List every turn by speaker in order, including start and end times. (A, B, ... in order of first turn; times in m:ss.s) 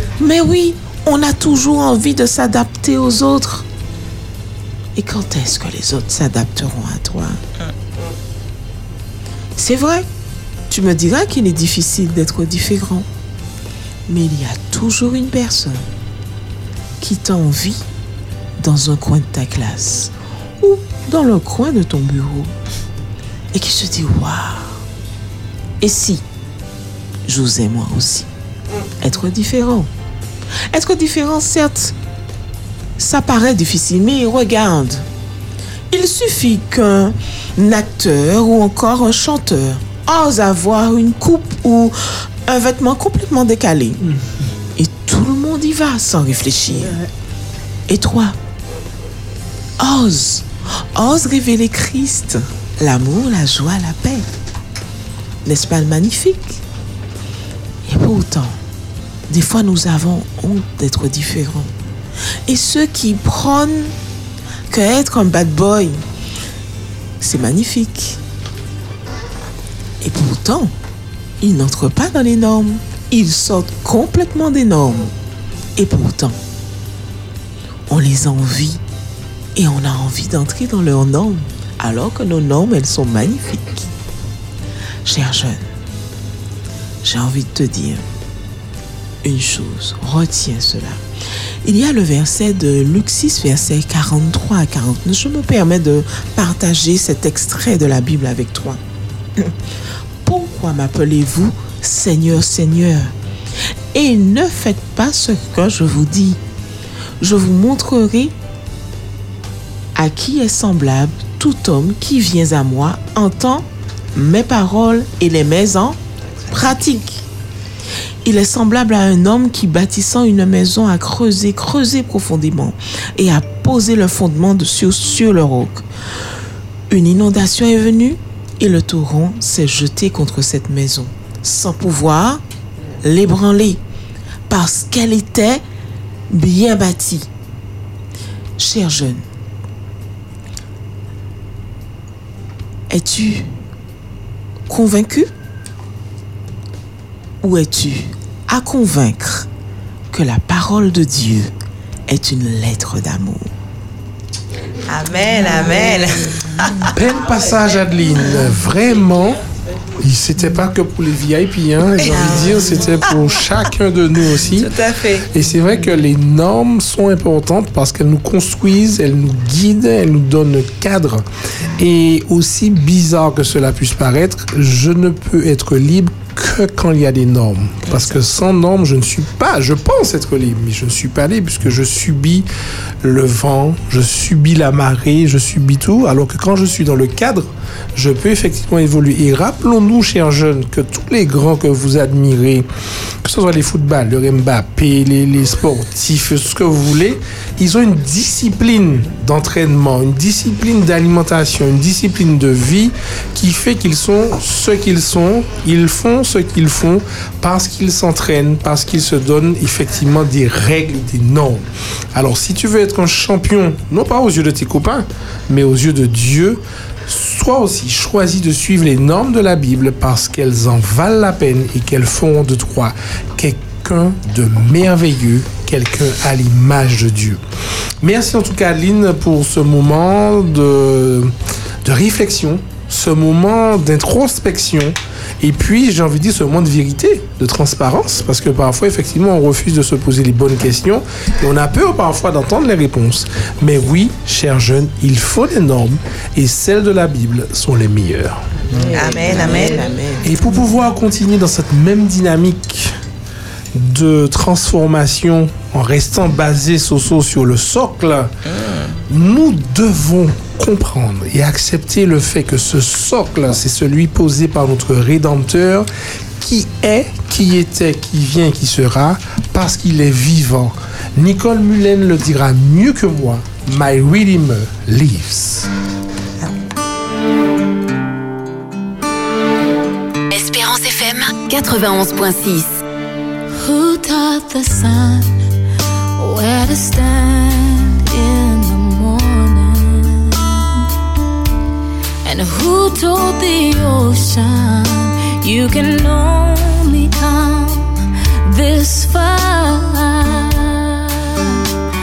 0:00.2-0:03.6 A
0:05.0-0:07.4 A
0:09.6-0:10.0 A
0:10.7-0:13.1 A
0:14.1-0:15.8 A
0:17.0-0:17.8 A
0:18.6-0:22.5 A
0:23.5-0:24.8 A
0:25.8-0:26.2 A
0:27.2-0:28.3 A
0:29.0-0:29.9 A
0:30.7-0:31.9 A
0:33.0-0:35.0 A
0:35.9-0:42.0 A
0:42.5-0:44.0 A
0:44.8-0:47.0 A
0:47.9-0:48.4 A
0:49.8-0:54.2 A
0:55.4-0:56.6 A
0:57.8-0:58.6 A
0:59.3-1:01.7 A
1:02.5-1:03.9 A
1:04.7-1:06.0 A
1:07.2-1:08.2 A
1:10.0-1:10.7 A
1:11.4-1:15.1 A
1:15.8-1:16.4 A
1:17.9-1:18.8 A
1:19.6-1:23.9 A
1:25.0-1:25.6 A
1:27.0-1:28.0 A
1:29.2-1:31.0 A
1:31.6-1:38.8 A
1:40.2-1:43.1 A
1:43.9-1:46.4 A
1:47.2-1:48.3 A
1:49.9-1:57.2 A
1:58.2-2:05.8 A
2:06.9-2:12.4 A
2:13.0-2:13.8 A
2:14.5-2:15.6 A
2:16.3-2:17.3 A
2:18.6-2:19.2 A
2:22.9-2:23.5 A
2:24.7-2:25.3 A
2:27.4-2:29.5 A
2:30.1-2:31.5 A
2:32.1-2:33.5 A
2:34.9-2:36.9 B
2:36.9-2:39.4 C
2:40.0-2:44.7 C
2:42.0-2:43.3 B
2:44.5-2:45.2 B
2:45.3-2:51.2 C
2:51.8-3:02.5 C
3:03.0-3:12.7 C
3:13.2-3:47.4 C
3:48.0-3:51.3 C
3:51.8-4:08.4 C
4:08.7-4:10.2 A
4:08.9-4:09.9 B
4:10.2-4:12.9 C
4:13.7-4:18.3 C
4:18.4-4:19.0 B
4:19.1-4:25.9 C
4:26.4-4:35.7 C
4:40.3-4:42.8 D
4:43.6-4:45.3 E
4:46.2-4:50.6 E
4:52.2-5:01.2 E